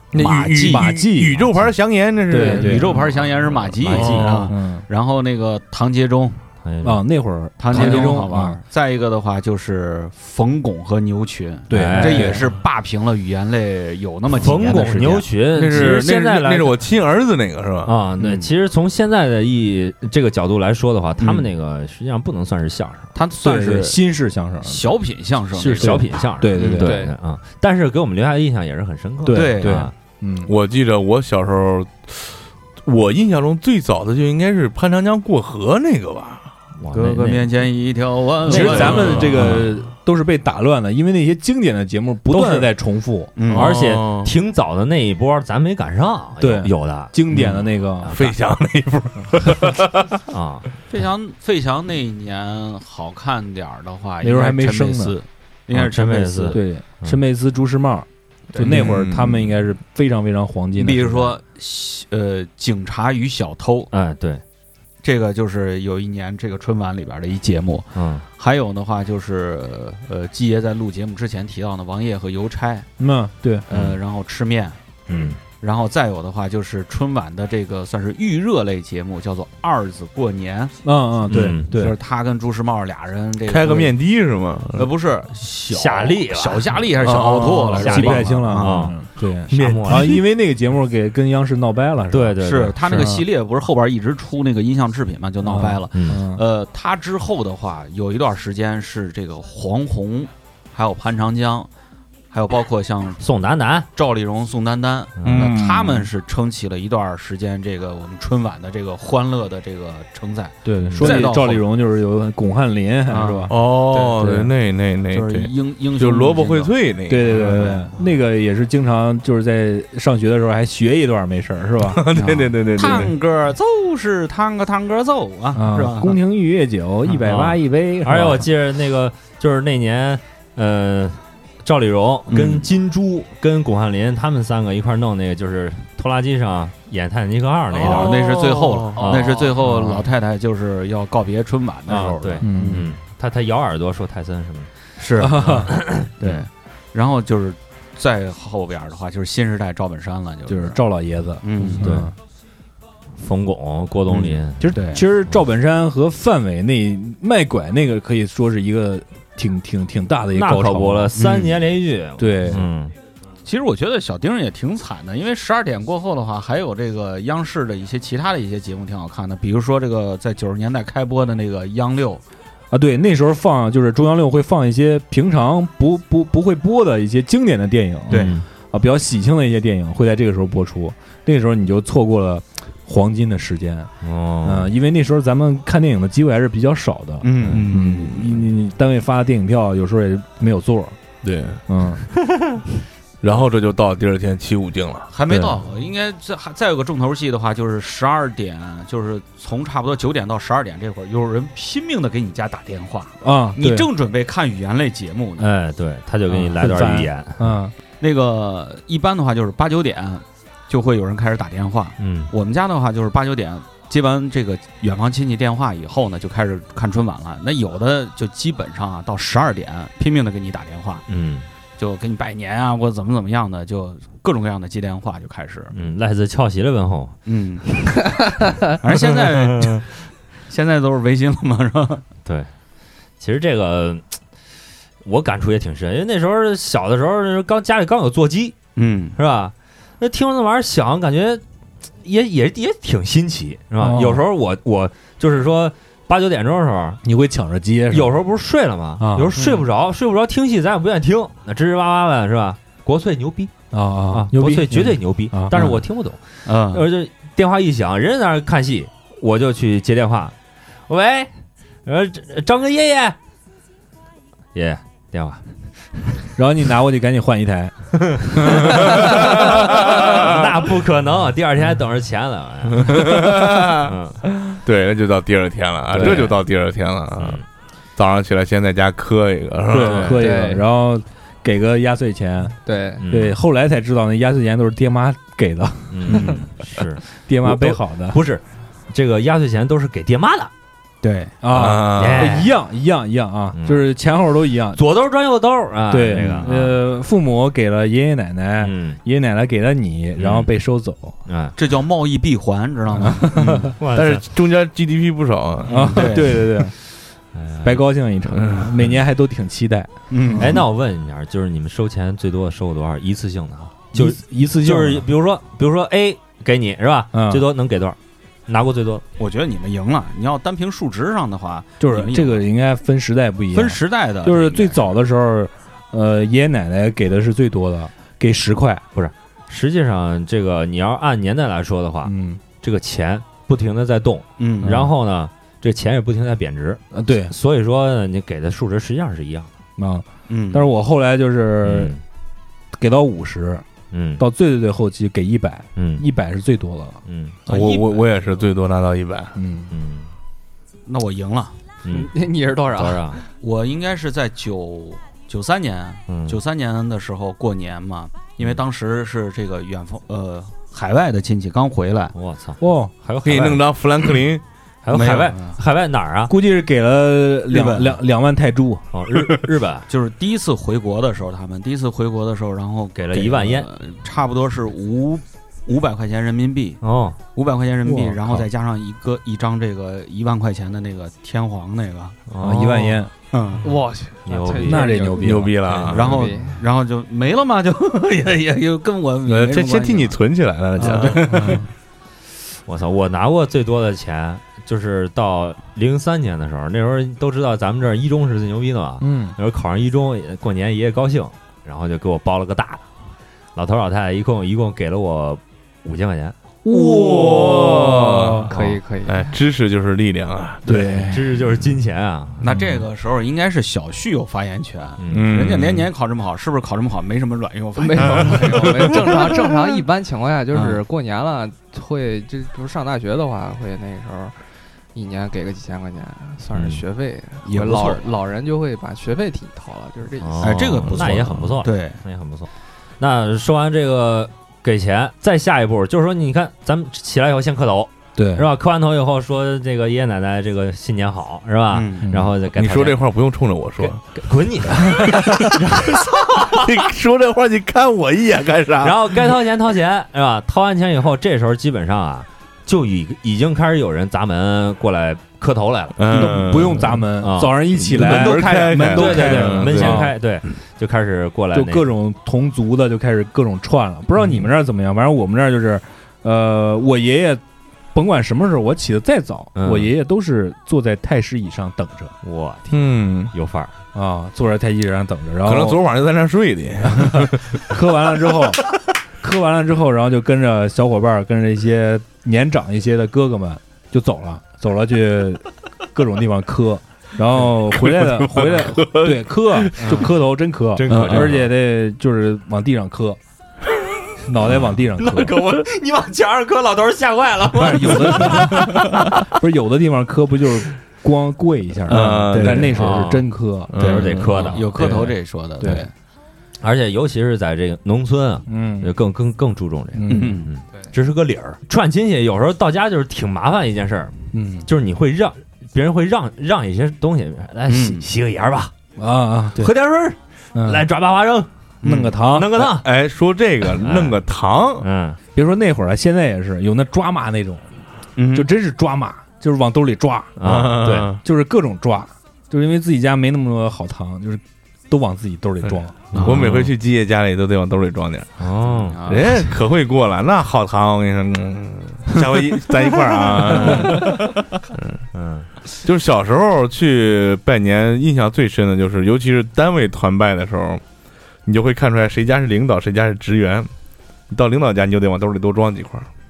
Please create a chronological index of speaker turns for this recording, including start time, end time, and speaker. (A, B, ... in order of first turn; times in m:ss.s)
0:00.1-0:02.9 A
0:00.1-0:00.9 B
0:00.6-0:01.7 C
0:02.3-0:03.0 C
0:02.4-0:06.4 B
0:03.8-0:04.5 D
0:03.9-0:04.4 A
0:04.5-0:04.8 C
0:06.6-0:07.0 D
0:06.8-0:08.6 C
0:07.6-0:16.1 B
0:07.7-0:08.1 D
0:11.7-0:12.5 C
0:11.7-0:12.4 D
0:14.3-0:16.8 D
0:15.6-0:17.9 A
0:17.9-0:23.1 D
0:18.2-0:18.5 B
0:21.2-0:21.5 B
0:23.2-0:24.0 B
0:23.4-0:24.9 C
0:24.6-0:26.9 B
0:25.5-0:29.9 D
0:25.8-0:27.0 C
0:26.8-0:27.1 E
0:29.2-0:30.5 C
0:29.3-0:29.9 B
0:30.4-0:32.3 A
0:32.8-0:36.5 A
0:36.8-0:37.5 D
0:36.9-0:39.6 B
0:38.4-0:39.7 D
0:38.4-0:43.3 C
0:38.8-0:39.3 A
0:42.4-0:42.6 D
0:43.4-0:43.7 B
0:43.5-0:44.3 A
0:43.5-0:47.5 D
0:46.4-0:48.1 C
0:48.0-0:48.4 D
0:48.1-0:50.2 A
0:50.3-0:50.7 D
0:50.9-0:56.6 B
0:54.2-0:55.2 C
0:55.7-0:57.2 D
0:56.5-1:01.4 C
0:58.5-0:59.0 B
0:58.6-0:59.5 A
1:00.8-1:03.9 B
1:03.9-1:04.4 D
1:05.0-1:12.9 B
1:08.0-1:08.3 D
1:13.0-1:13.6 C
1:13.7-1:14.8 B
1:13.7-1:14.0 D
1:15.1-1:15.4 D
1:15.6-1:20.7 B
1:20.8-1:22.0 C
1:21.3-1:21.7 D
1:21.7-1:24.0 B
1:23.4-1:24.9 A
1:24.7-1:28.9 B
1:25.7-1:29.0 D
1:27.1-1:33.3 C
1:27.1-1:27.4 A
1:29.5-1:30.2 A
1:29.5-1:30.2 D
1:32.1-1:33.1 D
1:32.4-1:41.7 B
1:35.4-1:36.4 C
1:35.9-1:36.2 D
1:42.3-1:43.2 B
1:43.2-1:43.9 D
1:44.0-1:51.6 B
1:45.2-1:45.6 D
1:45.3-1:46.1 A
1:50.6-1:53.5 C
1:50.8-1:51.2 D
1:53.1-1:54.0 B
1:53.5-1:57.6 A
1:54.2-1:54.5 C
1:55.1-1:57.9 B
1:57.1-2:02.2 C
2:01.8-2:03.1 A
2:02.2-2:06.2 B
2:05.5-2:08.5 C
2:07.1-2:18.4 D
2:12.3-2:12.7 B
2:17.7-2:22.9 B
2:17.8-2:19.2 A
2:19.0-2:20.0 D
2:21.9-2:24.7 D
2:22.4-2:22.8 C
2:25.0-2:30.8 B
2:25.2-2:25.7 C
2:25.2-2:26.4 D
2:30.5-2:32.1 C
2:31.4-2:32.1 B
2:31.6-2:32.1 D
2:33.2-2:34.7 D
2:34.1-2:35.0 B
2:34.6-2:41.1 C
2:40.3-2:42.9 D
2:41.2-2:41.6 B
2:42.2-2:42.7 C
2:43.4-2:52.2 B
2:52.7-3:03.9 C
2:58.1-2:58.4 B
2:58.1-2:58.4 D
3:04.0-3:04.7 D
3:04.4-3:11.0 C
3:07.2-3:08.4 B
3:11.2-3:11.6 A
3:11.7-3:12.0 C
3:13.2-3:15.1 A
3:15.1-3:25.5 B
3:15.3-3:15.6 C
3:23.2-3:23.9 C
3:25.4-3:27.5 D
3:26.3-3:27.7 C
3:28.0-3:41.0 B
3:32.0-3:32.3 D
3:41.1-3:41.4 D
3:41.8-3:45.7 B
3:45.7-3:47.2 D
3:47.3-3:47.7 B
3:48.8-3:52.0 B
3:49.0-3:49.8 D
3:52.2-3:52.5 D
3:53.2-3:54.0 D
3:55.0-3:58.6 D
3:58.8-3:59.2 B
3:59.2-4:01.4 D
4:02.0-4:07.0 D
4:03.8-4:04.2 C
4:07.0-4:08.2 C
4:07.9-4:13.5 D
4:09.0-4:09.4 C
4:09.3-4:09.7 B
4:13.7-4:15.7 C
4:14.1-4:20.4 D
4:15.5-4:15.8 B
4:16.4-4:16.9 B
4:20.9-4:21.3 D
4:21.8-4:23.2 D
4:24.5-4:26.3 D
4:26.4-4:27.7 C
4:28.1-4:34.2 D
4:28.3-4:29.5 C
4:28.8-4:30.4 A
4:32.7-4:37.4 A
4:35.9-4:36.4 D
4:37.2-4:37.4 D
4:38.0-4:40.2 A
4:39.7-4:46.4 C
4:39.8-4:40.3 D
4:40.2-4:40.6 E
4:42.6-4:43.0 E
4:43.0-4:43.4 D
4:45.9-4:50.5 D
4:47.3-4:48.2 C
4:51.0-4:51.4 B
4:51.4-4:54.8 C
4:51.5-4:52.4 A
4:52.0-4:52.6 D
4:53.6-4:53.8 D
4:54.7-4:56.7 D
4:55.9-5:01.2 C
4:56.2-4:56.5 B
4:58.6-4:59.0 D
5:00.2-5:00.5 D
5:01.3-5:01.6 D
5:01.6-5:03.8 B
5:03.0-5:03.7 C
5:03.8-5:04.2 D
5:03.9-5:06.1 A
5:05.7-5:06.6 B
5:05.7-5:06.7 C
5:07.3-5:07.8 D
5:07.6-5:10.5 C
5:08.4-5:08.7 A
5:10.1-5:10.7 B
5:10.4-5:19.0 D
5:13.9-5:15.1 C
5:17.1-5:17.5 C
5:19.2-5:22.4 B
5:21.8-5:28.8 C
5:23.5-5:24.8 B
5:29.0-5:39.5 D
5:32.0-5:32.4 C
5:34.4-5:34.9 B
5:34.6-5:34.9 C
5:36.9-5:37.3 C
5:39.8-5:41.9 C
5:40.3-5:40.7 B
5:41.6-5:42.0 D
5:42.7-5:43.6 C
5:43.9-5:44.2 D
5:44.2-5:47.0 C
5:45.8-5:46.0 D
5:47.1-5:47.4 D
5:47.4-5:49.3 A
5:47.5-5:48.4 B
5:49.4-5:49.7 C
5:49.7-5:50.1 D
5:50.9-5:51.6 B
5:51.8-5:52.1 D
5:51.9-5:53.2 E
5:52.7-5:53.2 D
5:53.4-6:02.1 B
5:56.1-5:56.4 D
6:02.1-6:03.6 D
6:02.6-6:02.9 C
6:03.2-6:04.4 A
6:04.8-6:06.4 D
6:04.9-6:05.6 B
6:06.3-6:08.9 C
6:07.5-6:08.0 B
6:08.9-6:09.9 D
6:09.9-6:16.8 B
6:13.0-6:13.7 D
6:16.8-6:17.2 D
6:17.4-6:22.2 B
6:17.8-6:18.4 C
6:22.3-6:23.0 D
6:22.4-6:23.1 C
6:23.3-6:23.7 B
6:23.6-6:25.2 E
6:23.7-6:24.0 A
6:24.3-6:26.0 D
6:24.6-6:25.6 C
6:25.2-6:26.2 A
6:25.9-6:30.2 B
6:26.0-6:26.6 E
6:29.3-6:31.6 A
6:30.8-6:31.7 B
6:31.3-6:31.7 C
6:32.7-6:42.8 D
6:39.0-6:39.4 C
6:43.6-6:46.4 D
6:46.6-6:48.5 C
6:46.7-6:48.5 A
6:48.5-6:49.4 E
6:49.1-6:50.7 A
6:50.6-6:51.3 C
6:51.1-6:52.4 D
6:52.4-6:59.1 B
6:52.5-6:52.8 C
6:55.0-6:55.4 D
6:55.1-6:55.9 A
6:57.8-7:04.4 E
7:00.5-7:00.8 B
7:05.0-7:10.6 E
7:06.5-7:06.8 D
7:07.4-7:08.1 B
7:10.2-7:12.5 D
7:10.4-7:12.0 B
7:10.8-7:11.4 A
7:13.0-7:23.0 D
7:18.2-7:18.5 C
7:21.7-7:22.1 B
7:22.1-7:22.3 C
7:22.5-7:24.0 A
7:23.8-7:26.7 D
7:24.8-7:29.3 A
7:28.8-7:36.6 D
7:36.0-7:37.0 A
7:36.1-7:40.2 C
7:37.2-7:41.9 D
7:37.8-7:40.1 A
7:41.5-7:47.4 C
7:47.9-7:52.1 C
7:49.6-7:49.9 D
7:52.2-7:53.7 D
7:52.7-7:53.3 A
7:53.9-7:55.8 C
7:55.4-7:57.6 A
7:56.8-7:58.7 C
7:59.2-8:13.2 C
8:07.8-8:09.7 A
8:09.8-8:10.1 D
8:10.7-8:11.5 D
8:10.9-8:11.3 A
8:14.3-8:15.4 C
8:14.4-8:19.3 D
8:17.5-8:23.8 C
8:21.9-8:23.0 A
8:21.9-8:22.8 B
8:22.7-8:23.3 D
8:23.7-8:24.5 A
8:23.8-8:24.7 D
8:23.8-8:25.9 B
8:24.5-8:25.9 C
8:26.6-8:34.1 D
8:28.5-8:28.9 C
8:29.9-8:30.4 C
8:30.1-8:30.5 B
8:34.3-8:34.7 C
8:34.7-8:38.7 D
8:37.7-8:38.1 B
8:39.0-8:39.7 C
8:39.6-8:41.5 D
8:40.6-8:40.9 C
8:41.8-8:42.2 B
8:41.8-8:42.7 C
8:42.2-8:42.9 D
8:42.7-8:44.9 A
8:43.8-8:44.2 D
8:44.8-8:45.2 D
8:45.4-8:47.7 C
8:48.2-8:48.5 B
8:48.3-8:50.4 C
8:50.4-8:51.2 D
8:50.4-8:51.2 A
8:51.2-8:56.1 C
8:56.1-8:56.6 B
8:56.1-8:56.7 D
8:56.2-8:58.4 A
8:58.4-8:59.0 D
8:58.7-8:59.5 B
8:59.1-9:05.0 A
9:03.6-9:04.0 D
9:05.1-9:05.5 D
9:05.8-9:10.8 A
9:11.4-9:13.7 A
9:14.3-9:16.1 A